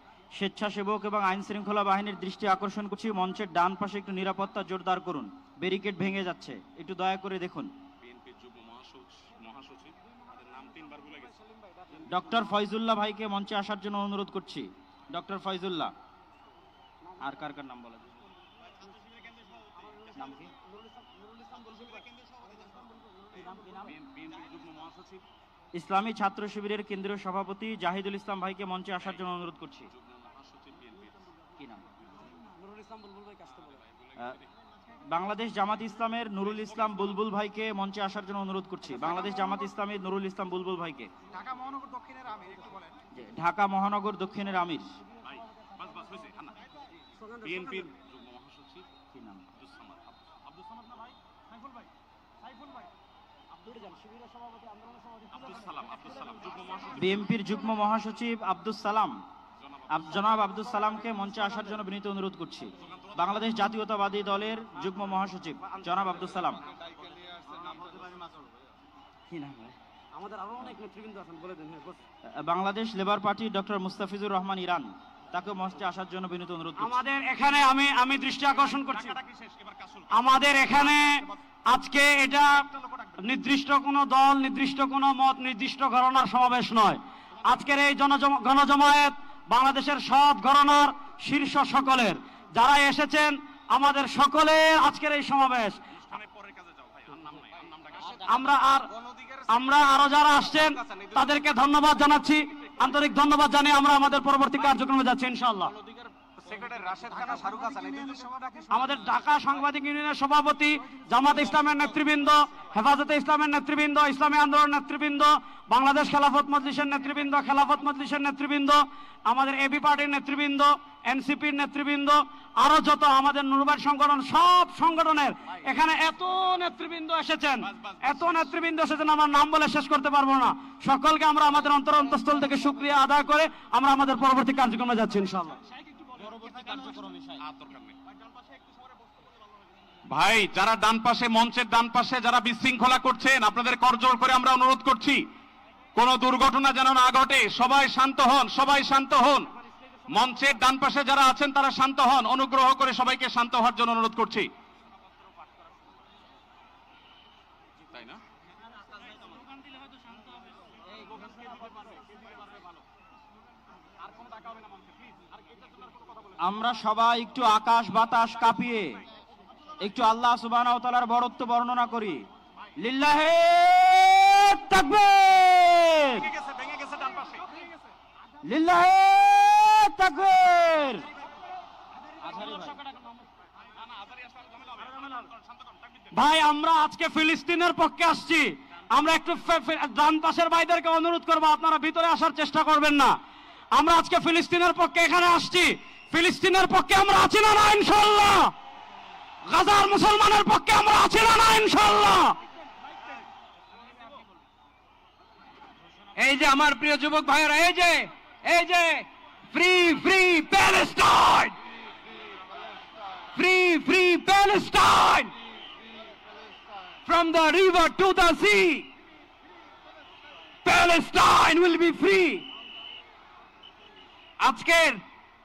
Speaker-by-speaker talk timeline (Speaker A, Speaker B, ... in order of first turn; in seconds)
Speaker A: 0.3-7.7, 12.1-15.9, 17.2-18.1, 20.1-20.5, 25.7-29.9, 31.6-31.9, 35.1-41.1, 43.1-45.0, 49.1-49.5, 56.9-59.2, 59.9-66.6, 69.3-69.8, 72.4-77.0, 136.5-137.3, 166.4-169.0, 169.8-172.2, 172.8-176.3, 178.4-181.1, 182.3-182.7
Speaker B: 8.0-11.3, 23.8-25.2, 29.9-31.2, 34.0-34.4, 45.7-46.5, 47.4-48.9, 49.6-50.1, 55.3-57.1, 59.7-60.3, 62.8-63.1, 65.8-67.4, 67.9-68.2, 79.1-80.1, 96.0-98.2, 106.4-108.3, 136.3-136.9, 137.4-137.9, 140.1-145.2, 145.9-149.5, 150.1-154.5, 157.9-158.2, 164.1-164.6, 176.2-177.4, 184.1-184.9
Speaker C: 32.4-33.8, 47.2-47.9, 53.6-55.3, 70.1-72.0, 76.8-79.2, 80.1-82.7, 83.2-95.8, 98.2-98.9, 99.5-105.7, 108.7-135.6, 182.3-183.0, 186.1-193.2, 193.7-198.5, 199.5-202.3
Speaker D: 41.5-42.8, 108.3-108.7, 206.2-211.6, 213.3-215.3, 217.0-218.9, 220.6-222.5, 224.4-225.0